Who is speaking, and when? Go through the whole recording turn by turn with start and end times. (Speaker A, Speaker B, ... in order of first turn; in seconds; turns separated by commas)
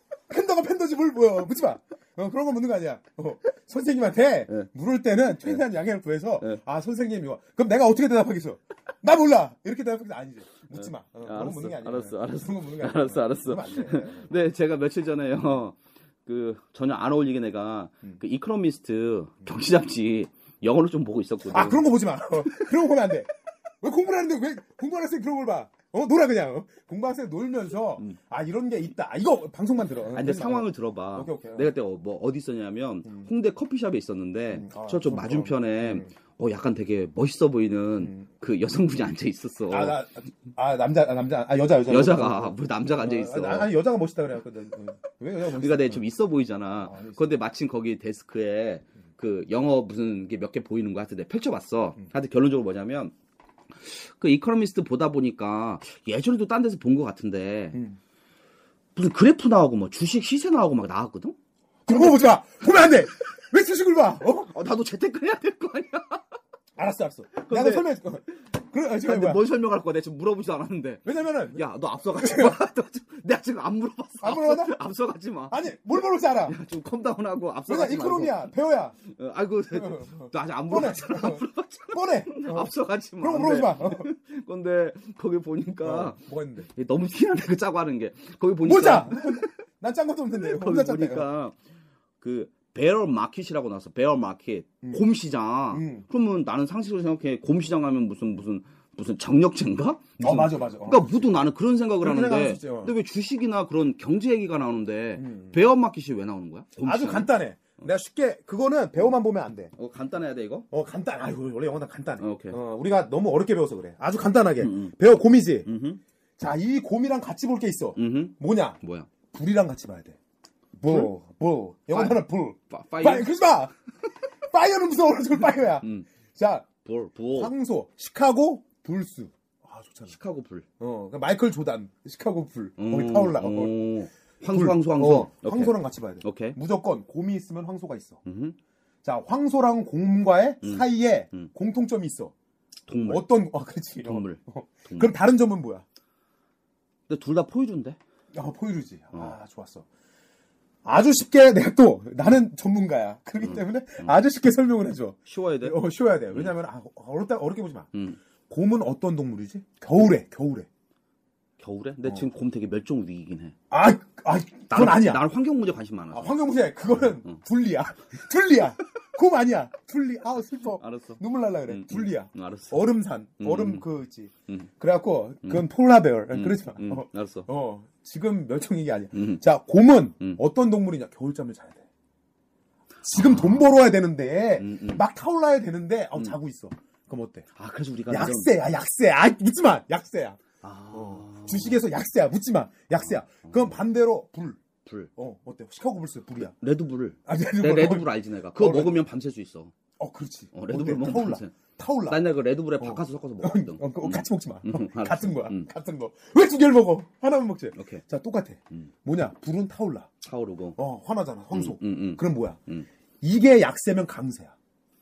Speaker A: 0.3-14.3, Speaker B: 10.7-21.9, Speaker A: 21.5-23.3, Speaker A: 23.8-31.7, Speaker B: 30.1-40.0, Speaker A: 34.5-36.1, Speaker A: 39.7-46.1, Speaker B: 41.9-43.7, Speaker B: 45.5-53.1, Speaker A: 46.8-47.4, Speaker B: 53.8-57.8, Speaker A: 57.7-58.0, Speaker B: 59.0-61.4, Speaker A: 61.9-64.5, Speaker B: 64.4-66.2, Speaker A: 66.8-69.5, Speaker B: 67.3-67.9, Speaker B: 69.0-75.8, Speaker A: 71.0-72.6, Speaker A: 74.2-74.8, Speaker A: 75.5-76.6, Speaker B: 76.4-78.5, Speaker A: 77.7-79.0, Speaker B: 79.0-89.5, Speaker A: 79.7-84.1, Speaker A: 85.8-86.7, Speaker A: 88.6-91.3, Speaker B: 90.3-91.6, Speaker B: 92.2-107.3, Speaker A: 95.7-96.1, Speaker A: 100.2-101.3, Speaker A: 102.0-103.0, Speaker A: 105.2-105.6, Speaker A: 106.8-109.7, Speaker B: 109.8-110.7, Speaker A: 110.7-115.7, Speaker B: 112.2-112.6, Speaker B: 114.6-115.0, Speaker B: 115.6-116.0, Speaker A: 116.4-118.8, Speaker B: 118.0-119.1, Speaker A: 119.3-120.2, Speaker A: 120.8-123.7, Speaker B: 120.9-121.1, Speaker B: 121.9-123.3, Speaker A: 124.5-126.7, Speaker B: 125.8-126.1, Speaker B: 126.8-127.5, Speaker A: 127.3-130.1, Speaker B: 130.1-130.7, Speaker A: 130.8-133.8, Speaker B: 132.8-136.6, Speaker A: 134.5-138.2, Speaker B: 138.2-138.6, Speaker A: 139.0-142.3, Speaker B: 140.6-141.5, Speaker B: 142.9-143.3, Speaker A: 143.0-145.8, Speaker B: 144.0-145.2, Speaker B: 147.1-148.0, Speaker A: 148.3-149.9, Speaker A: 150.8-157.9, Speaker B: 153.4-154.1, Speaker B: 155.3-156.5, Speaker B: 157.9-158.2, Speaker A: 158.5-160.7, Speaker B: 161.6-163.6, Speaker A: 163.7-165.2, Speaker B: 164.7-167.4, Speaker A: 166.1-181.8, Speaker B: 170.8-173.9, Speaker B: 176.3-177.5, Speaker B: 179.1-179.4, Speaker A: 183.0-187.5, Speaker B: 183.1-183.7, Speaker B: 184.6-185.0, Speaker B: 187.6-188.5, Speaker A: 188.1-190.4, Speaker B: 190.6-191.8, Speaker A: 190.9-194.6, Speaker B: 193.0-193.7, Speaker B: 194.8-195.1, Speaker A: 195.2-196.6, Speaker B: 196.4-199.7, Speaker A: 197.3-199.0, Speaker A: 200.0-202.2, Speaker B: 200.5-205.7, Speaker A: 202.8-210.1, Speaker B: 207.7-208.1, Speaker B: 210.2-210.8, Speaker A: 210.8-212.6, Speaker B: 211.5-212.9, Speaker A: 213.2-214.5